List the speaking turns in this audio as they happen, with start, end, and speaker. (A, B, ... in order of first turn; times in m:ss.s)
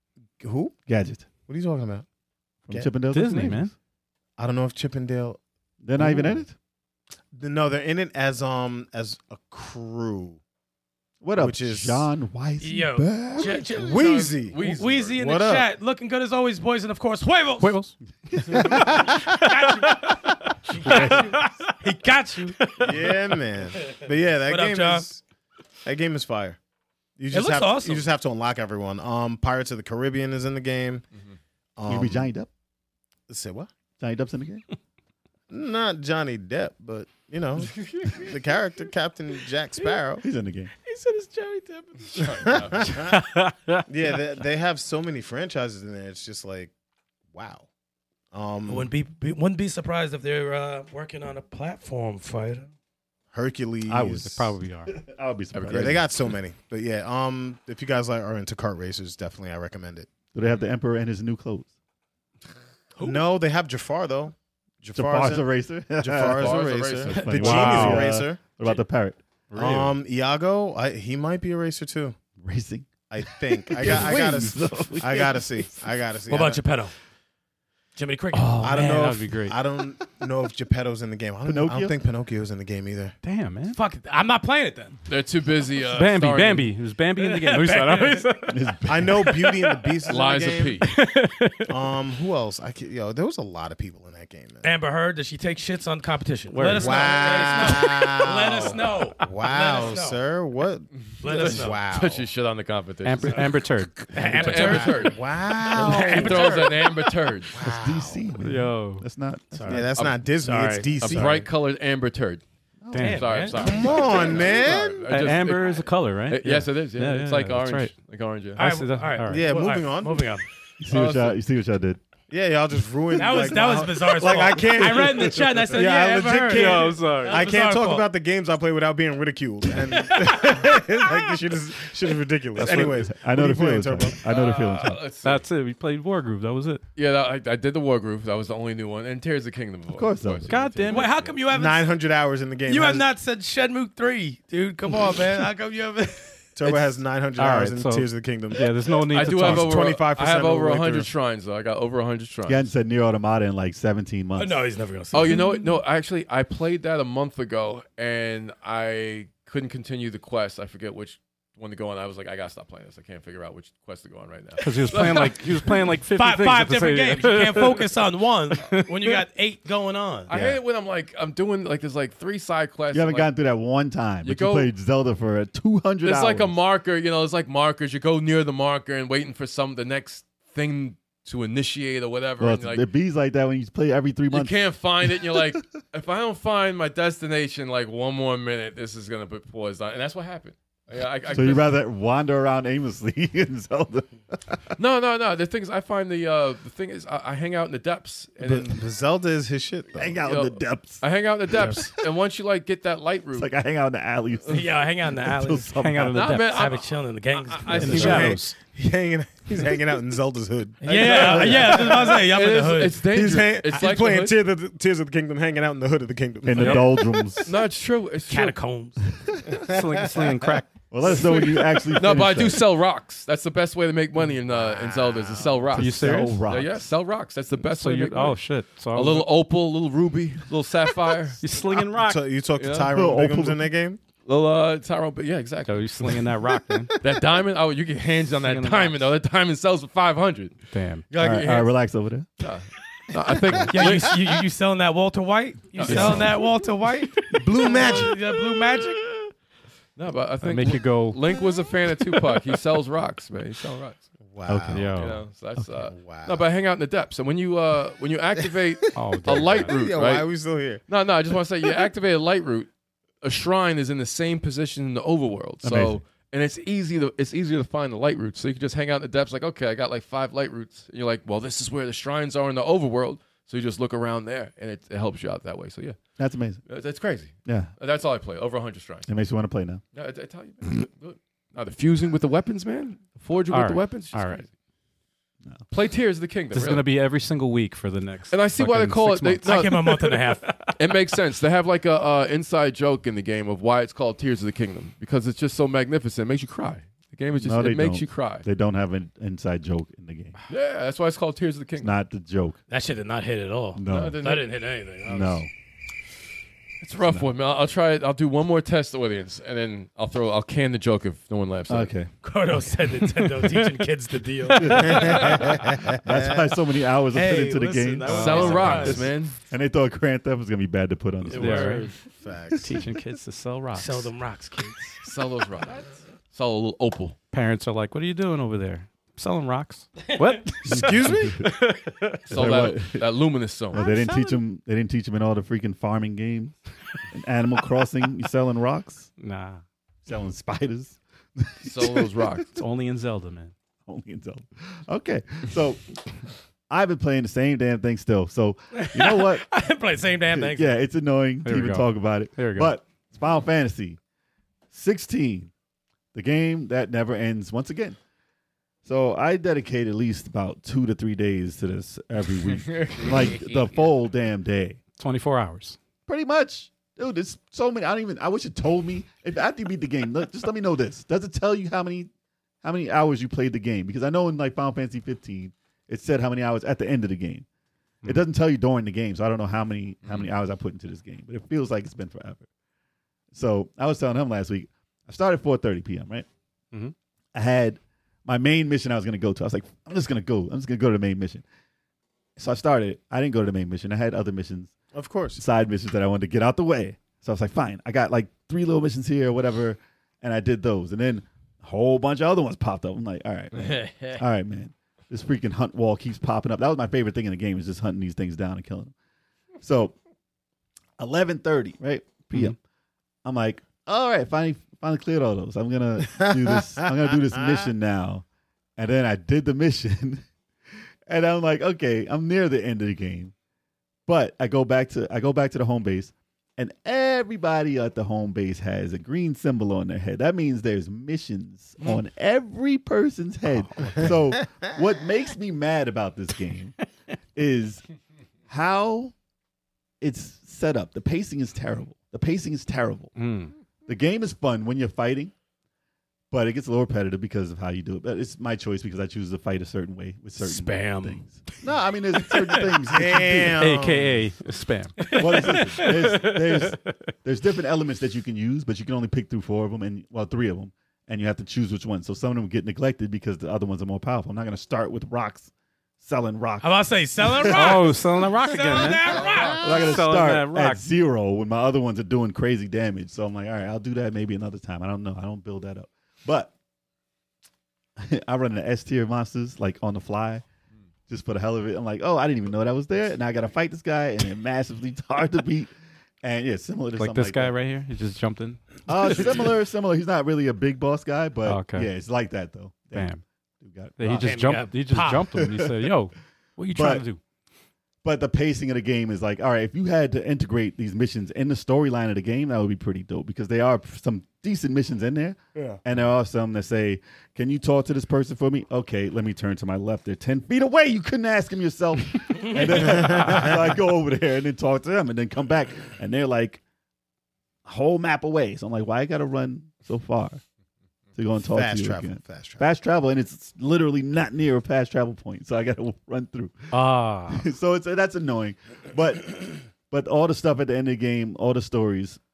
0:00.4-0:00.8 A
0:00.9-0:01.2 B
0:01.4-0:02.0 A
0:02.7-0:03.7 B
0:03.1-0:03.7 C
0:04.4-0:05.4 A
0:05.8-0:06.5 B
0:06.0-0:06.4 A
0:07.3-0:10.4 A
0:11.2-0:13.6 B
0:11.4-0:12.1 A
0:12.6-0:17.8 D
0:13.4-0:15.7 A
0:14.0-0:15.2 E
0:17.6-0:21.7 C
0:18.3-0:19.0 B
0:18.6-0:22.8 D
0:20.8-0:21.3 B
0:22.5-0:23.1 C
0:22.8-0:25.2 A
0:23.8-0:25.0 D
0:25.8-0:26.6 A
0:27.2-0:31.0 A
0:27.3-0:28.1 D
0:31.8-0:32.3 A
0:31.9-0:32.5 B
0:33.3-0:33.7 A
0:34.0-0:34.6 B
0:35.5-0:40.2 A
0:40.2-0:40.7 B
0:40.8-0:42.5 D
0:42.1-0:42.9 E
0:42.4-0:43.2 A
0:43.0-0:43.9 C
0:43.9-0:46.7 A
0:47.3-0:47.7 A
0:48.3-0:48.9 A
0:48.7-0:52.7 D
0:53.3-0:54.5 A
0:53.9-0:54.3 B
0:54.2-0:54.9 C
0:54.8-0:56.0 B
0:55.5-0:56.0 E
0:55.7-1:00.1 A
1:00.3-1:01.7 B
1:03.0-1:03.2 D
1:03.0-1:05.5 A
1:04.9-1:10.0 B
1:06.0-1:08.8 A
1:06.4-1:07.7 E
1:07.4-1:08.1 C
1:09.5-1:12.2 A
1:12.4-1:15.7 B
1:13.1-1:16.6 A
1:16.3-1:16.9 D
1:17.9-1:19.0 D
1:18.3-1:19.6 C
1:18.6-1:23.2 A
1:21.4-1:21.9 B
1:23.2-1:23.8 C
1:23.7-1:25.0 D
1:25.1-1:26.7 E
1:25.9-1:28.7 C
1:27.2-1:28.5 D
1:28.5-1:29.2 B
1:28.8-1:30.9 A
1:30.0-1:30.9 E
1:30.8-1:31.7 C
1:31.7-1:34.7 A
1:34.6-1:40.2 D
1:36.5-1:38.1 C
1:36.8-1:42.3 A
1:41.0-1:43.6 E
1:41.2-1:41.8 D
1:43.0-1:44.1 C
1:44.1-1:46.9 D
1:44.2-1:47.0 A
1:44.2-1:45.2 E
1:45.8-1:47.5 E
1:47.5-1:48.3 A
1:47.6-1:49.8 B
1:48.4-1:49.0 C
1:49.5-1:49.9 D
1:49.6-1:51.5 A
1:49.9-1:50.2 E
1:50.4-1:51.2 D
1:51.0-1:52.4 E
1:52.8-1:54.0 B
1:52.9-1:53.2 C
1:53.0-1:53.8 D
1:53.0-1:58.6 E
1:53.6-1:55.1 A
1:55.1-1:57.9 C
1:58.6-1:59.5 C
1:58.6-2:00.4 D
1:59.3-2:00.3 A
2:00.8-2:02.0 B
2:00.9-2:01.4 E
2:02.3-2:14.2 A
2:03.2-2:08.1 D
2:04.2-2:05.6 B
2:06.5-2:07.5 C
2:10.0-2:10.6 D
2:12.6-2:15.0 B
2:14.2-2:15.4 E
2:15.2-2:16.8 C
2:17.0-2:21.4 E
2:19.9-2:20.6 B
2:20.5-2:21.2 C
2:20.9-2:21.9 D
2:21.4-2:23.1 A
2:22.6-2:26.5 D
2:26.5-2:31.1 A
2:27.4-2:29.8 C
2:29.1-2:32.7 E
2:32.4-2:34.6 B
2:34.4-2:35.6 D
2:35.1-2:45.7 E
2:44.6-2:47.9 C
2:44.7-2:45.2 D
2:46.1-2:50.3 D
2:48.5-2:49.2 C
2:50.3-2:50.6 B
2:50.3-2:53.3 E
2:52.9-2:56.6 B
2:54.2-2:54.7 E
2:56.0-3:02.8 E
3:02.4-3:05.6 B
3:04.3-3:11.7 E
3:11.3-3:14.8 B
3:14.8-3:18.8 E
3:18.5-3:20.2 A
3:20.0-3:21.9 B
3:20.2-3:23.5 E
3:23.3-3:26.2 B
3:24.5-3:25.7 D
3:25.7-3:26.7 C
3:26.1-3:28.4 E
3:26.4-3:28.3 D
3:27.7-3:28.5 C
3:27.7-3:32.4 A
3:27.8-3:28.4 B
3:30.8-3:33.0 D
3:30.8-3:34.3 E
3:31.2-3:31.9 B
3:33.0-3:37.5 A
3:36.4-3:37.5 B
3:37.4-3:38.6 E
3:38.3-3:39.1 D
3:39.5-3:40.2 A
3:39.7-3:41.2 C
3:40.9-3:42.7 B
3:41.1-3:48.4 E
3:44.5-3:45.8 A
3:45.7-3:46.9 B
3:45.8-3:46.4 C
3:47.6-3:49.3 C
3:48.9-3:51.4 E
3:51.4-3:52.2 C
3:51.9-3:54.0 A
3:52.6-3:52.9 E
3:52.9-3:53.7 B
3:54.2-3:56.2 E
3:55.6-3:56.9 C
3:57.0-4:01.7 E
3:58.4-3:59.0 C
4:00.7-4:01.1 C
4:01.2-4:02.3 B
4:02.4-4:04.3 E
4:03.6-4:09.3 D
4:05.7-4:06.4 E
4:05.8-4:06.3 C
4:05.8-4:06.3 B
4:07.3-4:08.2 A
4:10.0-4:14.0 E
4:10.4-4:11.2 C
4:14.2-4:14.9 A
4:14.4-4:14.9 B
4:14.7-4:15.2 C
4:15.0-4:20.3 E
4:15.8-4:16.5 A
4:18.9-4:19.7 C
4:19.2-4:20.8 A
4:20.9-4:22.7 E
4:23.2-4:36.0 E
4:25.6-4:26.0 B
4:36.2-4:36.6 B
4:36.7-4:39.1 E
4:37.4-4:37.7 B
4:39.1-4:39.8 B
4:39.9-4:44.5 E
4:43.5-4:44.4 C
4:45.7-4:46.9 E
4:46.5-4:50.8 C
4:48.3-4:49.9 E
4:49.4-4:50.5 D
4:50.7-4:58.4 E
4:57.4-5:00.3 B
5:00.5-5:01.9 E
5:01.8-5:02.6 B
5:02.7-5:05.4 D
5:03.7-5:04.2 B
5:03.9-5:04.5 E
5:05.0-5:05.5 B
5:06.8-5:11.9 E
5:11.7-5:12.1 B
5:12.2-5:15.5 D
5:14.6-5:21.9 B
5:14.8-5:16.0 A
5:17.1-5:19.1 D
5:18.0-5:19.4 E
5:18.1-5:18.9 C
5:21.3-5:21.9 D
5:21.3-5:22.0 C
5:22.2-5:22.8 A
5:22.6-5:24.1 C
5:23.7-5:25.0 D
5:25.0-5:27.2 E
5:27.3-5:32.5 C
5:30.6-5:31.5 A
5:32.3-5:33.1 B
5:32.3-5:33.8 E
5:33.7-5:36.6 B
5:33.8-5:34.0 D
5:33.9-5:34.2 C
5:37.1-5:39.1 B
5:39.2-5:39.6 C
5:40.0-5:42.4 B
5:41.6-5:42.5 E
5:42.5-5:43.5 C
5:43.8-5:45.9 B
5:46.7-5:49.5 B
5:48.7-5:50.7 D
5:50.3-5:54.0 B
5:51.4-5:52.7 C
5:54.7-5:55.5 B
5:56.1-5:58.0 B
5:58.8-6:04.8 B
6:02.5-6:03.7 E
6:05.0-6:05.8 C
6:06.1-6:12.1 B
6:12.6-6:17.4 B
6:18.0-6:22.4 B
6:20.0-6:20.3 E
6:23.3-6:26.2 B
6:27.3-6:31.4 B
6:32.4-6:34.7 B
6:34.9-6:35.4 A
6:35.4-6:48.9 B
6:49.6-6:49.9 B
6:51.0-6:52.6 B
6:53.2-6:58.2 B
6:56.1-6:56.9 A
6:58.8-7:00.2 B
7:01.1-7:03.3 B
7:04.1-7:16.8 B
7:13.6-7:14.1 C
7:17.3-7:17.8 B
7:18.5-7:19.1 B
7:20.0-7:23.1 B
7:23.1-7:23.5 C
7:23.9-7:25.3 B
7:26.3-7:33.8 B
7:30.4-7:31.6 D
7:32.2-7:32.7 D
7:32.8-7:34.2 A
7:33.6-7:37.1 C
7:35.0-7:35.9 D
7:35.2-7:47.9 B
7:46.6-7:49.9 D
7:47.4-7:50.8 C
7:49.0-7:49.8 E
7:49.3-7:56.5 B
7:58.0-8:00.4 B
8:01.1-8:05.7 B
8:06.2-8:07.5 B
8:07.0-8:09.2 C
8:08.9-8:13.1 B
8:11.4-8:11.9 C
8:12.9-8:13.2 C
8:13.6-8:14.7 B
8:14.0-8:17.2 C
8:14.1-8:15.3 D
8:15.3-8:15.9 B
8:16.7-8:17.0 B
8:18.0-8:36.6 B
8:32.8-8:33.6 A
8:37.6-8:40.4 B
8:41.1-8:46.7 B
8:41.4-8:42.6 A
8:46.7-8:47.4 C
8:47.3-8:52.2 B